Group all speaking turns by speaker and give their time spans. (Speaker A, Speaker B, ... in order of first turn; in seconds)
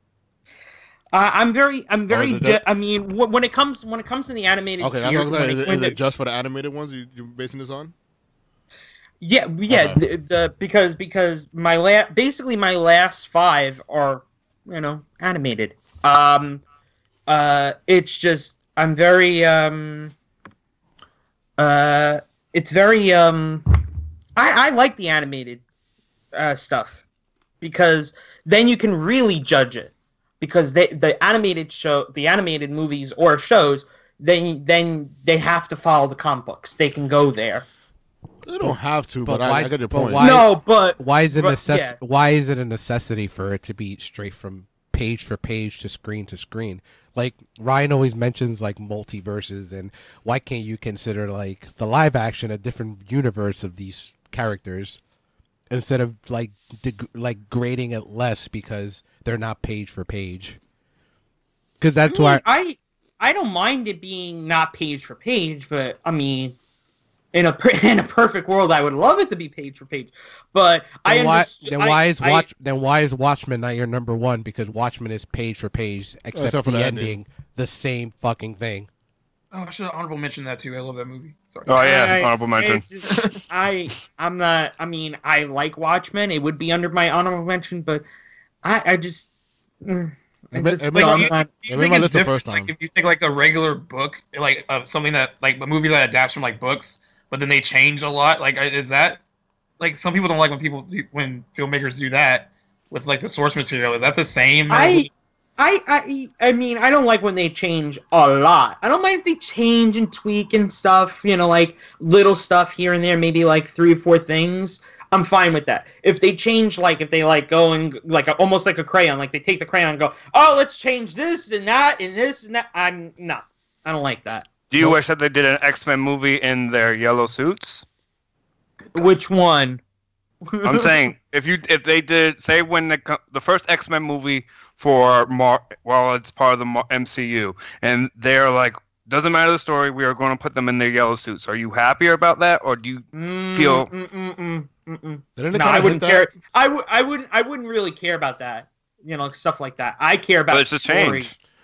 Speaker A: 1.1-6.0, 9.2-16.6, 17.3-20.1, 21.6-23.7, 24.4-25.6, 26.3-27.0, 27.6-37.7, 40.2-42.0, 62.0-66.6, 67.3-72.5, 81.8-88.0, 88.6-89.3, 89.8-91.6, 104.7-124.5, 128.9-129.8, 130.5-131.0, 143.1-151.3
Speaker B: 2.1-2.6, 4.8-7.9, 9.7-10.0, 38.4-40.4, 76.3-77.2, 90.5-92.7, 145.4-146.3
Speaker C: 39.2-55.0, 55.7-60.6, 61.8-62.4, 71.0-78.9
Speaker D: 79.5-81.8, 83.1-83.4, 90.9-99.2, 99.8-105.1
Speaker E: 81.7-82.8, 124.7-127.8, 130.6-143.9, 150.5-151.3